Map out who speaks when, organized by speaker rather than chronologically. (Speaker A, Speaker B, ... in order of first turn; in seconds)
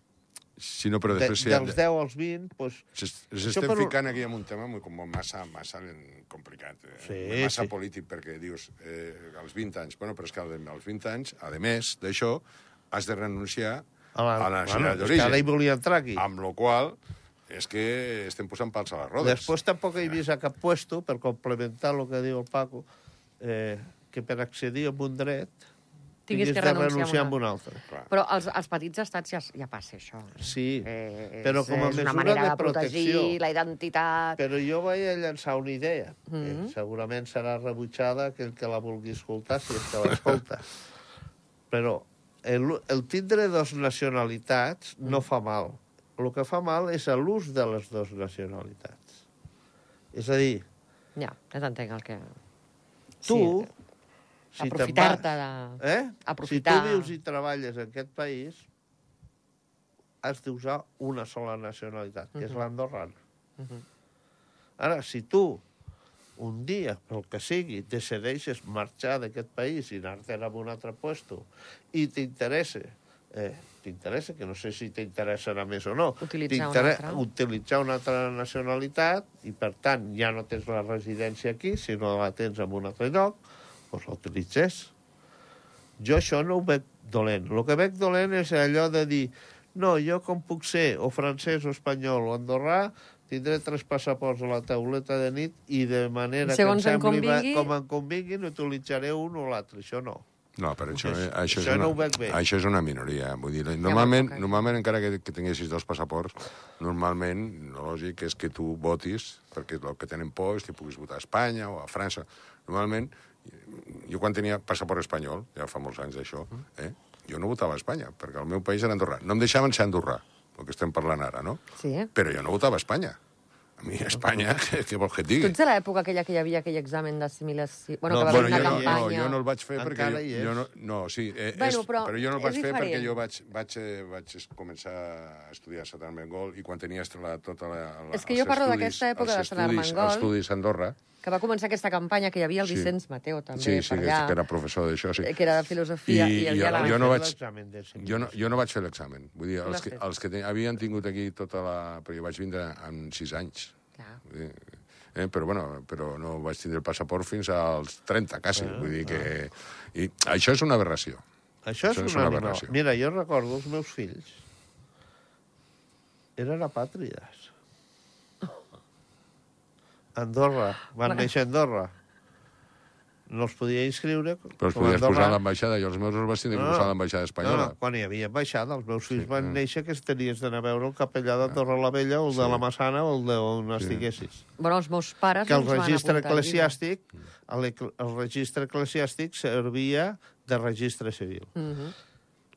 Speaker A: 0.6-1.8, 3.0-13.8, 14.4-15.4, 16.1-17.0, 17.5-19.5, 100.6-121.6, 122.1-123.2, 123.8-125.5, 128.3-141.0, 142.6-142.9, 143.5-145.3, 146.1-147.3, 148.0-153.7, 154.2-161.2, 161.9-162.7, 174.6-177.7, 179.2-179.6, 182.3-182.6, 183.8-184.1
Speaker B: 1.1-2.9, 3.4-3.9, 7.0-7.7, 14.1-16.2, 19.2-22.9, 23.4-25.6, 26.3-27.8, 30.4-30.9, 31.4-33.4, 34.4-40.7, 41.7-49.2, 50.1-50.6, 53.2-53.7, 54.5-58.7, 60.2-63.2, 64.8-65.6, 66.4-84.9, 86.0-100.2, 100.9-102.4, 128.1-129.0, 129.8-130.7, 146.7-148.6, 158.6-159.3, 161.6-164.4, 166.4-167.5, 170.2-171.9, 173.3-175.4, 176.5-184.4, 185.5-191.5
Speaker C: 26.3-27.4, 28.1-34.4, 36.3-36.7, 51.2-52.3, 53.2-53.7, 54.6-57.1, 63.6-63.8, 76.2-77.2, 96.4-97.7, 103.8-104.5, 121.8-122.1, 125.4-129.4, 131.5-133.1, 138.1-140.3, 141.2-144.4, 145.2-147.1, 149.6-150.0, 184.6-186.7, 191.6-191.9